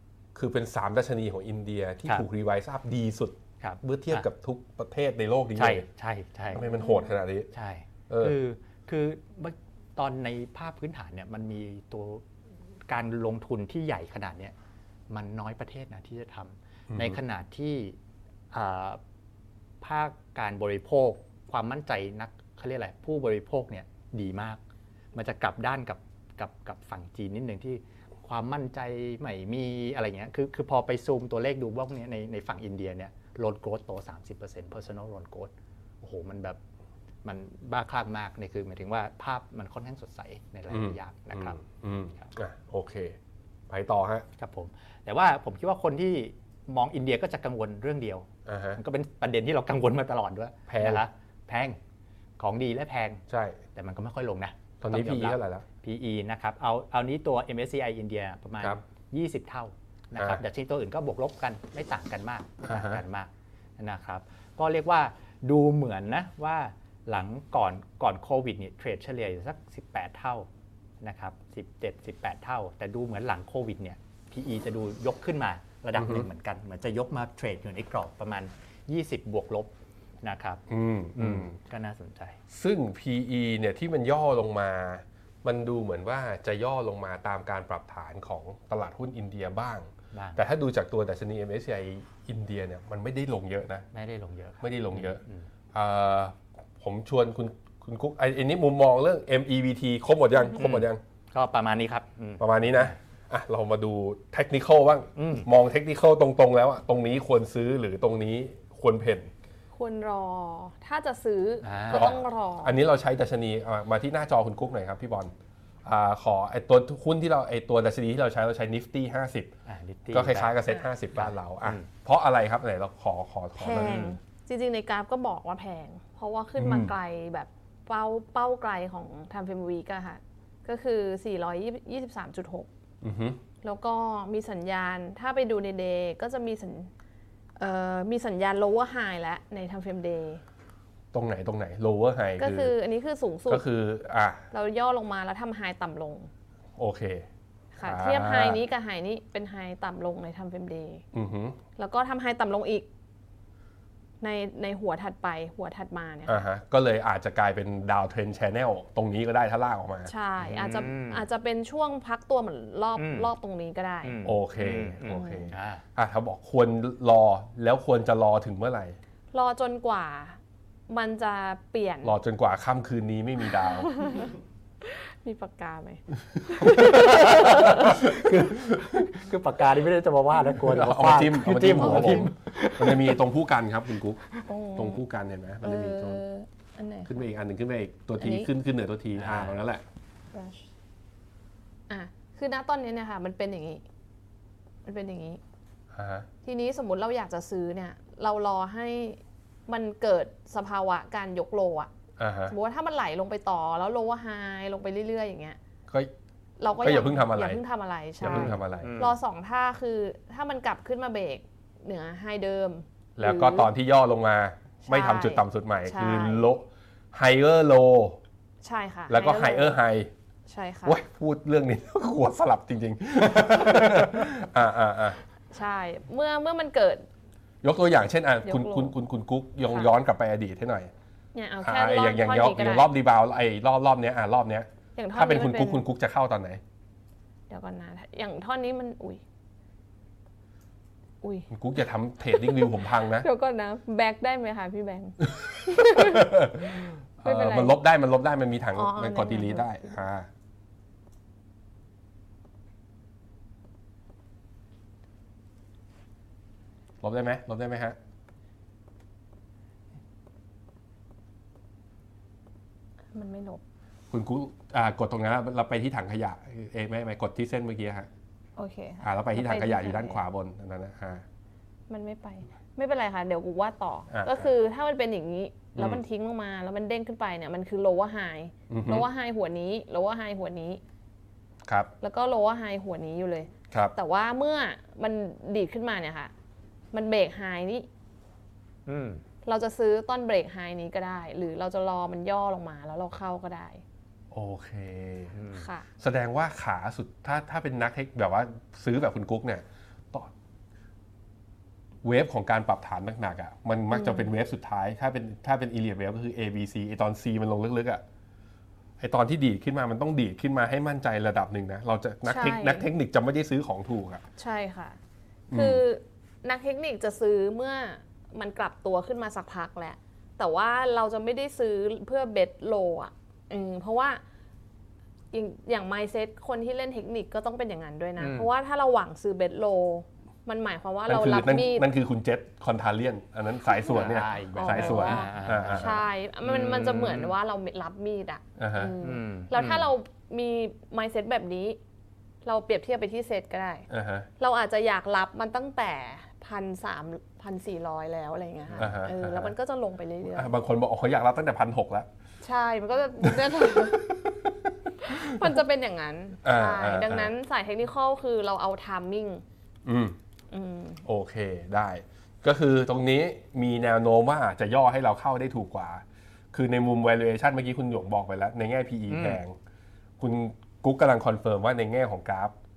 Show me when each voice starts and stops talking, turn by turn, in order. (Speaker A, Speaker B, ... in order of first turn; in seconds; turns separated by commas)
Speaker A: 0.3-5.9, Speaker B: 3.6-4.3, Speaker B: 5.6-6.6, Speaker A: 6.5-7.5, Speaker C: 6.6-7.1, Speaker B: 7.5-12.2, Speaker A: 8.1-8.4, Speaker B: 12.9-14.6, Speaker B: 15.1-18.0, Speaker A: 16.9-17.2, Speaker B: 18.5-19.0, Speaker B: 19.8-24.6, Speaker B: 25.1-36.6, Speaker B: 37.2-42.3, Speaker A: 40.7-43.2, Speaker A: 43.7-44.3, Speaker B: 44.4-51.8, Speaker A: 48.5-48.8, Speaker A: 50.7-51.0, Speaker B: 52.4-53.2, Speaker A: 53.3-53.6, Speaker B: 53.8-70.5, Speaker A: 54.8-55.6, Speaker A: 60.2-60.4, Speaker A: 62.7-63.0, Speaker B: 71.0-80.6, Speaker A: 76.0-76.3, Speaker A: 80.7-81.5, Speaker B: 81.2-82.4, Speaker A: 82.5-93.9, Speaker B: 90.1-90.4, Speaker B: 93.9-95.5, Speaker A: 94.6-95.2, Speaker A: 95.7-101.0, Speaker B: 100.5-103.0, Speaker A: 102.4-109.3, Speaker B: 105.2-105.5, Speaker C: 109.7-112.8, Speaker B: 111.6-112.2, Speaker A: 111.9-115.3, Speaker A: 115.8-119.5, Speaker B: 119.7-120.6, Speaker A: 120.1-124.1, Speaker B: 121.1-121.9, Speaker C: 123.6-132.7, Speaker B: 123.8-124.2, Speaker A: 126.6-126.9, Speaker A: 133.0-133.4, Speaker C: 133.6-136.9, Speaker C: 137.6-140.4, Speaker A: 141.1-142.7, Speaker C: 142.4-143.7, Speaker A: 143.5-144.4, Speaker C: 144.5-146.3, Speaker A: 146.8-147.3, Speaker C: 147.7-151.1, Speaker A: 147.8-148.6, Speaker A: 151.1-151.6, Speaker C: 151.8-152.9, Speaker C: 154.2-156.4, Speaker A: 156.3-160.1, Speaker C: 160.1-164.2, Speaker B: 160.4-161.2, Speaker B: 163.0-163.3, Speaker B: 164.0-165.8, Speaker A: 164.2-169.0, Speaker C: 165.1-165.5, Speaker C: 169.3-172.2, Speaker A: 172.0-173.9, Speaker C: 173.8-178.0, Speaker B: 176.6-183.2, Speaker A: 178.0-179.1, Speaker A: 180.5-184.2, Speaker C: 184.5-185.0, Speaker A: 184.8-186.2, Speaker C: 185.6-187.2, Speaker A: 187.1-189.8, Speaker C: 188.2-188.5, Speaker B: 189.2-189.6, Speaker C: 190.3-190.7, Speaker C: 191.9-193.8, Speaker C: 194.9-195.4, Speaker A: 195.9-196.3, Speaker C: 196.4-201.9, Speaker A: 202.2-202.6, Speaker C: 202.5-205.6, Speaker C: 206.6-213.7, Speaker A: 206.8-207.6, Speaker A: 208.2-208.9, Speaker B: 208.2-209.2, Speaker A: 213.2-218.2, Speaker C: 214.8-216.5, Speaker C: 218.6-219.8, Speaker A: 219.1-220.1, Speaker C: 220.5-221.0, Speaker A: 220.8-225.2, Speaker C: 225.5-227.1, Speaker A: 227.6-230.9, Speaker C: 228.4-229.0, Speaker C: 229.7-229.9, Speaker C: 231.3-232.9, Speaker A: 231.6-236.6, Speaker C: 235.0-235.8, Speaker C: 237.5-239.2, Speaker C: 241.2-241.5, Speaker A: 241.5-243.3, Speaker C: 242.3-246.5, Speaker A: 245.7-250.3, Speaker C: 247.2-247.8, Speaker C: 248.8-249.8, Speaker A: 257.0-258.0, Speaker C: 263.1-263.6, Speaker A: 264.1-268.1, Speaker C: 268.6-270.2, Speaker A: 269.0-271.2, Speaker C: 271.9-280.8, Speaker A: 274.1-274.5, Speaker A: 275.8-276.0, Speaker A: 278.7-279.1, Speaker A: 281.7-281.9, Speaker C: 282.0-286.3, Speaker C: 286.9-287.9, Speaker B: 288.9-289.2, Speaker C: 289.4-293.8, Speaker A: 294.3-295.3, Speaker B: 295.3-295.7, Speaker C: 295.5-295.9, Speaker A: 296.0-300.3, Speaker A: 302.0-308.0, Speaker C: 303.9-304.3, Speaker A: 309.0-314.2, Speaker C: 312.3-312.9, Speaker C: 314.4-315.0, Speaker A: 315.5-315.8, Speaker C: 315.5-324.2, Speaker C: 325.3-331.9, Speaker B: 328.2-328.5, Speaker A: 331.1-336.1, Speaker B: 333.9-337.3, Speaker C: 334.6-341.8, Speaker A: 338.6-338.9, Speaker B: 339.0-339.9, Speaker C: 342.4-343.9, Speaker A: 343.9-344.3, Speaker C: 344.4-350.5, Speaker B: 348.7-348.9, Speaker A: 348.8-349.5, Speaker A: 350.3-352.1, Speaker C: 352.4-354.1, Speaker C: 355.0-359.4, Speaker A: 356.4-357.3, Speaker A: 359.9-360.2, Speaker C: 360.5-361.0, Speaker A: 361.0-369.6, Speaker B: 369.1-369.4, Speaker A: 370.2-372.6